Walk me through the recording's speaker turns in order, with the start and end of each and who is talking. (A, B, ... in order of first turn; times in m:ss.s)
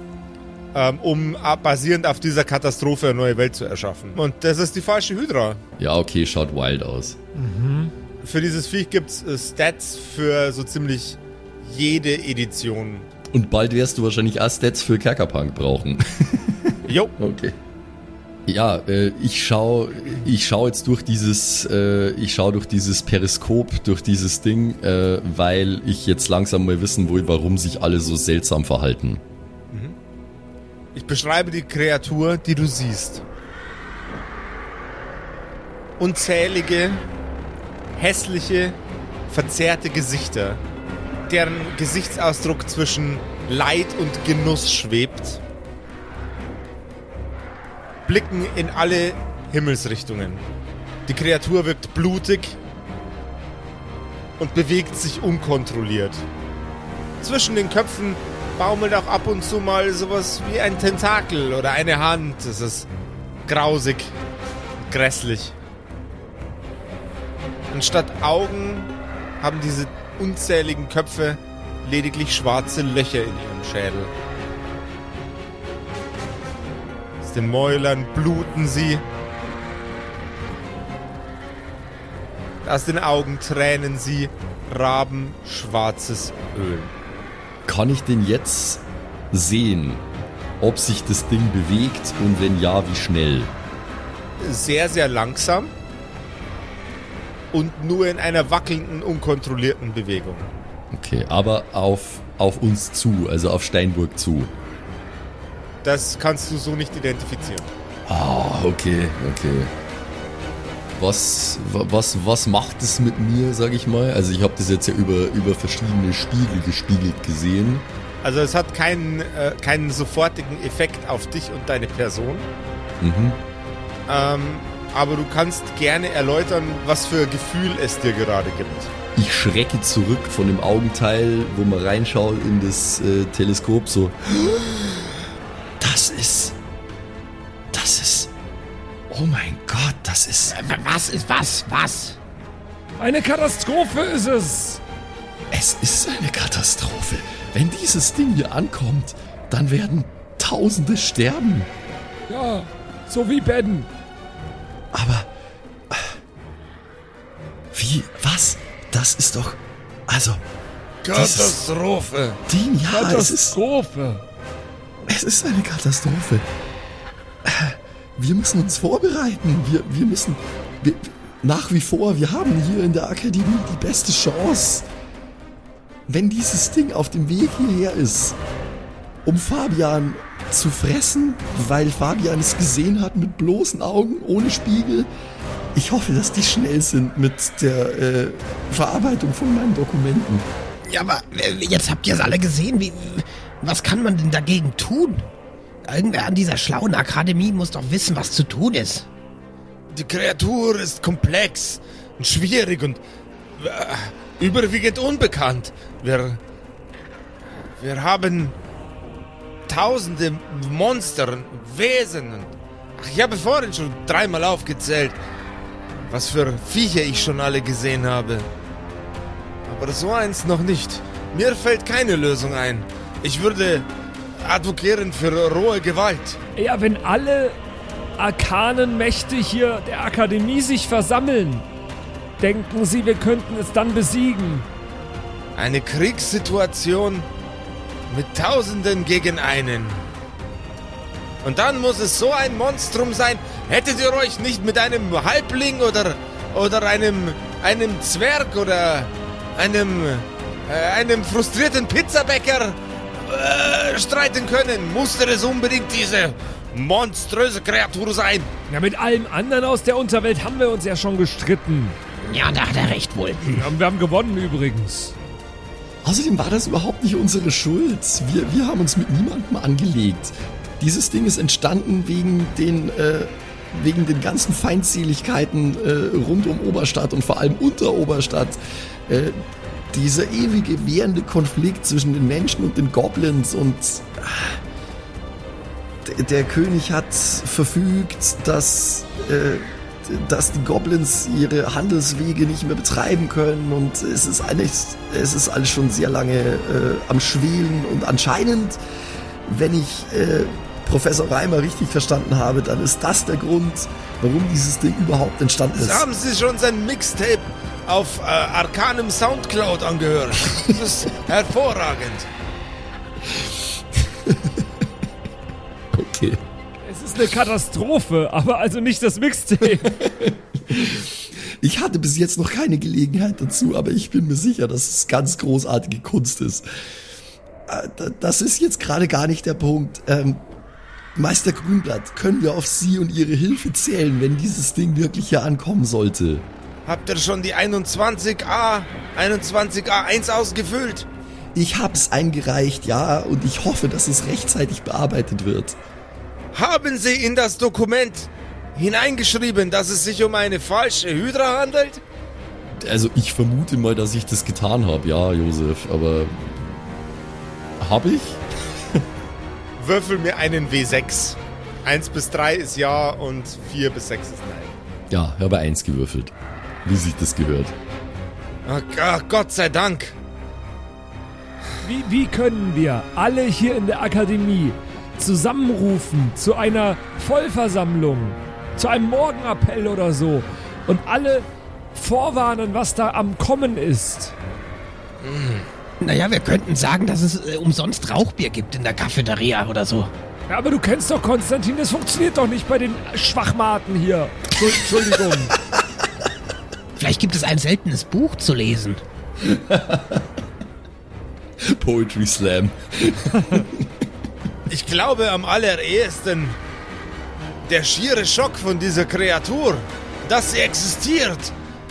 0:00.7-0:05.6 A
0:05.8-0:07.2 B
0:07.3-0:07.9 C
0:08.2-0:13.1 A
0:13.3-0:17.6 B
0:16.8-0:17.1 A
0:18.4-0:29.2 B
0:30.9-0:33.2 A
0:36.0-0:37.0 A
0:38.0-0:38.8 A
0:39.3-0:40.6 A
0:41.3-0:45.4 A
0:48.1-0:50.4 A
0:51.1-0:52.6 A
0:54.4-0:56.2 A
0:57.2-1:02.9 A
1:03.4-1:04.1 A
1:04.9-1:05.6 A
1:07.7-1:14.1 A
1:17.2-1:19.0 A
1:22.6-1:26.9 A
1:27.6-1:30.0 B
1:30.6-1:33.5 B
1:34.4-1:35.7 A
1:37.5-1:40.5 A
1:40.9-1:44.5 B
1:45.8-1:47.7 A
1:48.1-1:49.7 B
1:51.0-1:57.8 B
1:58.2-2:02.5 A
2:03.0-2:03.4 B
2:04.1-2:08.9 A
2:09.2-2:14.9 B
2:15.8-2:16.6 B
2:17.7-2:18.3 B
2:19.1-2:20.6 B
2:20.5-2:22.2 D
2:23.0-2:24.8 C
2:25.5-2:31.7 B
2:32.3-2:33.9 C
2:34.9-2:35.3 B
2:35.9-2:36.2 B
2:37.7-2:40.4 B
2:41.0-2:42.4 A
2:41.1-2:41.6 B
2:42.5-2:43.6 B
2:42.9-2:44.2 C
2:45.1-2:46.4 B
2:47.4-2:54.9 B
2:56.1-2:58.4 B
2:59.2-3:05.1 B
3:05.7-3:10.4 B
3:10.9-3:15.3 D
3:15.8-3:19.1 D
3:19.9-3:23.0 A
3:23.6-3:26.4 A
3:27.8-3:28.5 A
3:29.7-3:35.2 A
3:36.1-3:38.5 A
3:39.7-3:43.9 A
3:44.4-3:46.4 A
3:46.6-3:47.6 C
3:48.2-3:51.6 C
3:52.4-3:54.6 C
3:55.6-3:57.3 A
3:58.1-4:00.0 A
4:01.4-4:18.5 A
4:18.7-4:22.0 C
4:22.2-4:23.7 D
4:23.5-4:25.1 C
4:26.0-4:39.4 B
4:39.9-4:44.6 B
4:46.0-4:58.8 B
4:59.5-5:06.0 B
5:05.7-5:12.3 A
5:14.2-5:14.7 B
5:15.9-5:16.4 B
5:16.8-5:20.0 C
5:19.6-5:26.6 B
5:27.7-5:30.4 B
5:31.2-5:36.4 B
5:36.8-5:41.1 A
5:41.5-5:45.8 B
5:46.5-5:52.0 A
5:52.8-5:56.8 B
5:57.8-5:58.4 B
5:59.8-6:04.8 A
6:05.1-6:06.3 B
6:06.8-6:07.7 B
6:08.6-6:10.2 A
6:11.8-6:24.3 C
6:25.2-6:25.6 A
6:26.0-6:30.1 D
6:30.5-6:35.6 C
6:35.0-6:35.4 B
6:37.0-6:39.0 D
6:39.4-6:40.2 B
6:41.6-6:43.9 B
6:44.7-6:46.6 A
6:47.6-6:51.5 A